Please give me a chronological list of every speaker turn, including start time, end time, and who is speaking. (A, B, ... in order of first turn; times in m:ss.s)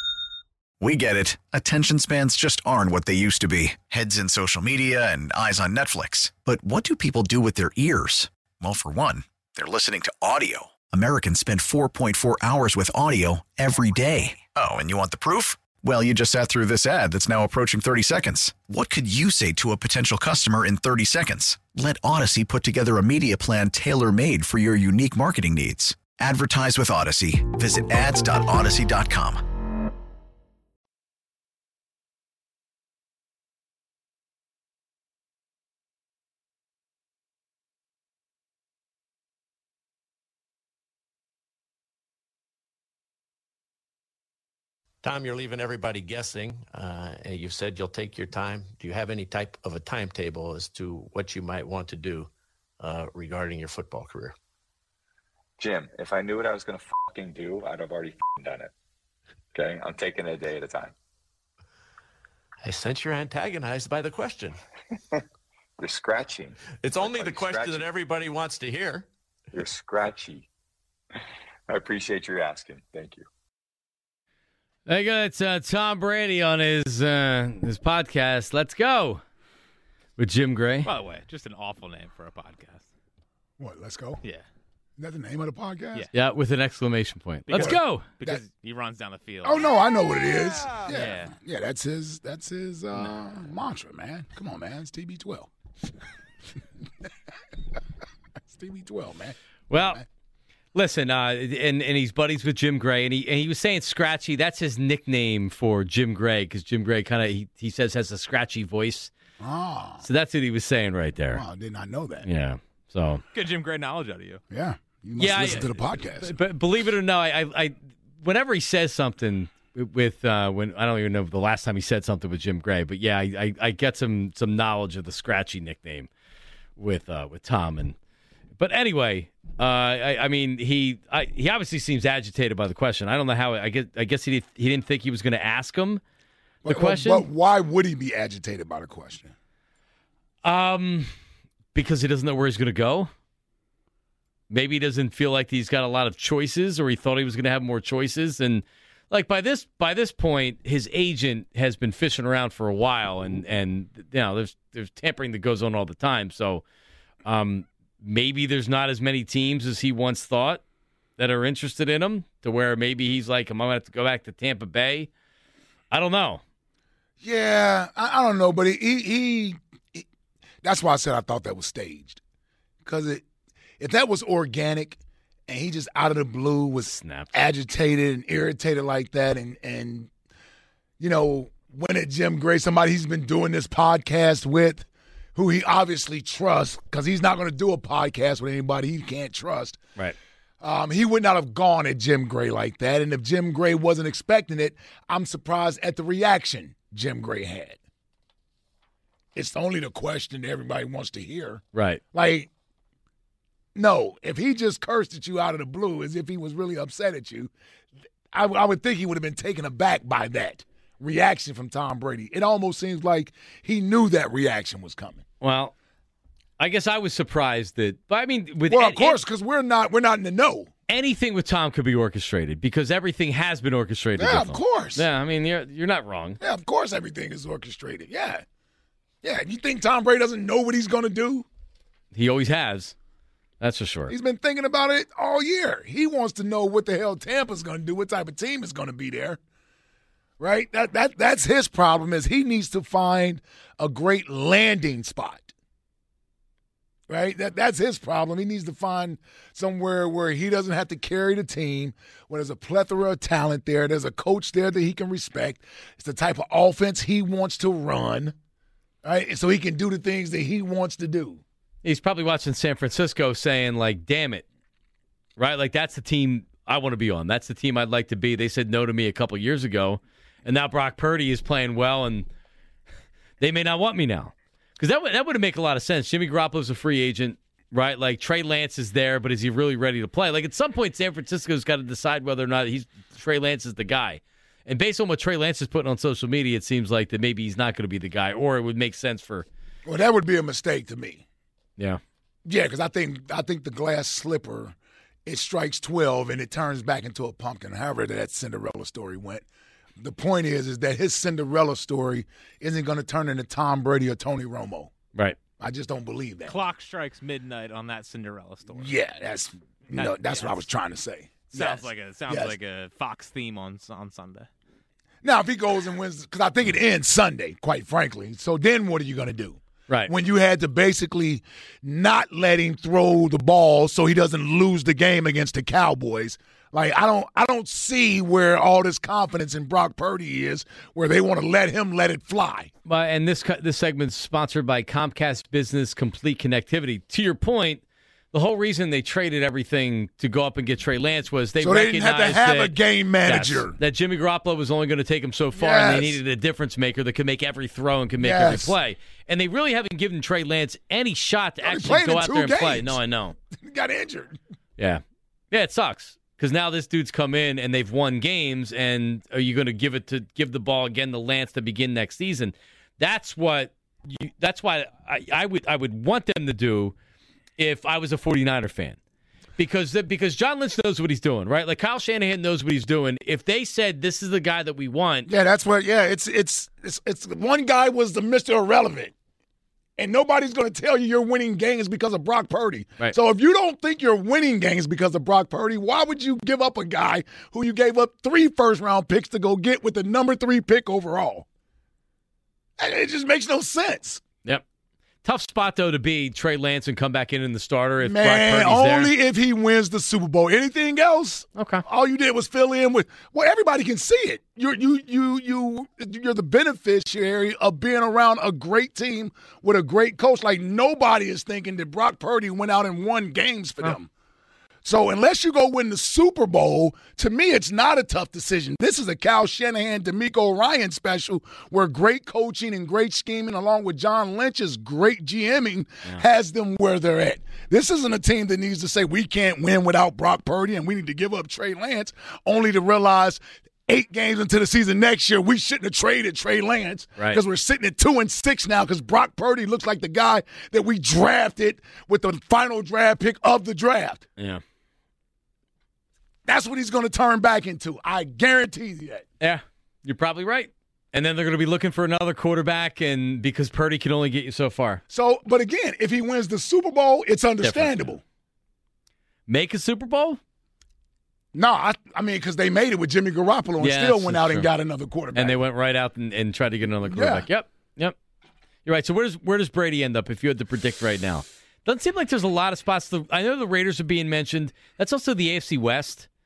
0:00.8-0:29.4 A
0:45.0-0:54.3 B
0:55.6-0:58.7 C
0:59.5-1:00.9 C
1:02.6-1:04.6 B
1:05.8-1:07.9 C
1:06.7-1:09.1 B
1:09.5-1:10.5 C
1:11.7-1:13.2 C
1:14.9-1:19.2 D
1:20.2-1:20.9 D
1:20.8-1:22.9 E
1:23.6-1:24.2 F
1:25.0-1:26.1 F
1:26.1-1:28.1 D
1:27.5-1:29.7 E
1:27.5-1:28.4 F
1:29.4-1:35.5 F
1:30.3-1:31.3 E
1:38.5-1:40.0 F
1:39.7-1:40.0 D
1:40.7-1:49.1 D
1:49.4-1:50.0 F
1:50.0-1:51.4 D
1:51.3-1:52.3 F
1:52.2-1:53.2 D
1:53.3-1:54.4 E
1:54.5-1:56.3 F
1:55.2-2:06.1 D
2:06.8-2:07.9 D
2:08.6-2:16.0 D
2:16.6-2:17.2 D
2:16.6-2:19.3 F
2:20.4-2:21.1 D
2:21.7-2:23.1 D
2:24.5-2:36.6 D
2:37.2-2:40.6 D
2:41.2-2:45.1 D
2:45.9-2:46.4 D
2:47.2-2:50.0 F
2:50.6-2:52.2 F
2:52.8-2:53.2 F
2:53.8-3:00.1 F
2:56.8-2:57.3 D
3:01.0-3:09.8 F
3:10.6-3:17.8 F
3:19.3-3:22.5 F
3:21.7-3:22.0 D
3:23.7-3:27.5 F
3:28.3-3:35.2 F
3:35.4-3:35.7 D
3:36.6-3:39.2 D
3:38.7-3:40.7 F
3:40.9-3:46.4 D
3:44.2-3:45.0 F
3:46.4-3:48.4 F
3:49.2-3:51.4 F
3:52.1-3:52.9 D
3:53.6-3:54.1 D
3:54.1-3:59.4 F
4:00.4-4:05.5 F
4:07.1-4:18.3 F
4:19.0-4:21.4 F
4:21.8-4:24.4 D
4:25.4-4:32.3 D
4:33.4-4:49.4 D
4:49.8-4:51.2 F
4:52.4-4:59.4 F
5:00.0-5:04.9 F
5:05.6-5:06.6 F
5:06.4-5:08.9 E
5:08.7-5:12.6 F
5:09.9-5:10.6 E
5:11.5-5:14.5 E
5:15.2-5:32.7 F
5:32.8-5:53.3 D
5:41.6-5:43.8 F
5:45.6-5:46.2 F
5:48.2-5:48.8 F
5:51.6-5:53.0 F
5:53.5-5:54.4 F
5:54.8-6:06.9 D
6:07.6-6:09.0 D
6:09.6-6:15.3 D
6:15.3-6:19.1 F
6:20.0-6:31.4 F
6:32.8-6:34.2 F
6:35.2-6:39.1 D
6:38.0-6:54.1 F
6:41.6-6:41.8 D
6:54.8-7:24.3 F
7:26.4-7:29.2 F
7:29.4-7:35.0 D
7:35.1-7:38.2 F
7:37.6-7:38.1 D
7:39.5-7:40.4 D
7:41.5-7:45.6 F
7:43.8-7:44.7 D
7:45.3-7:48.1 D
7:47.1-7:47.4 F
7:48.8-7:56.3 D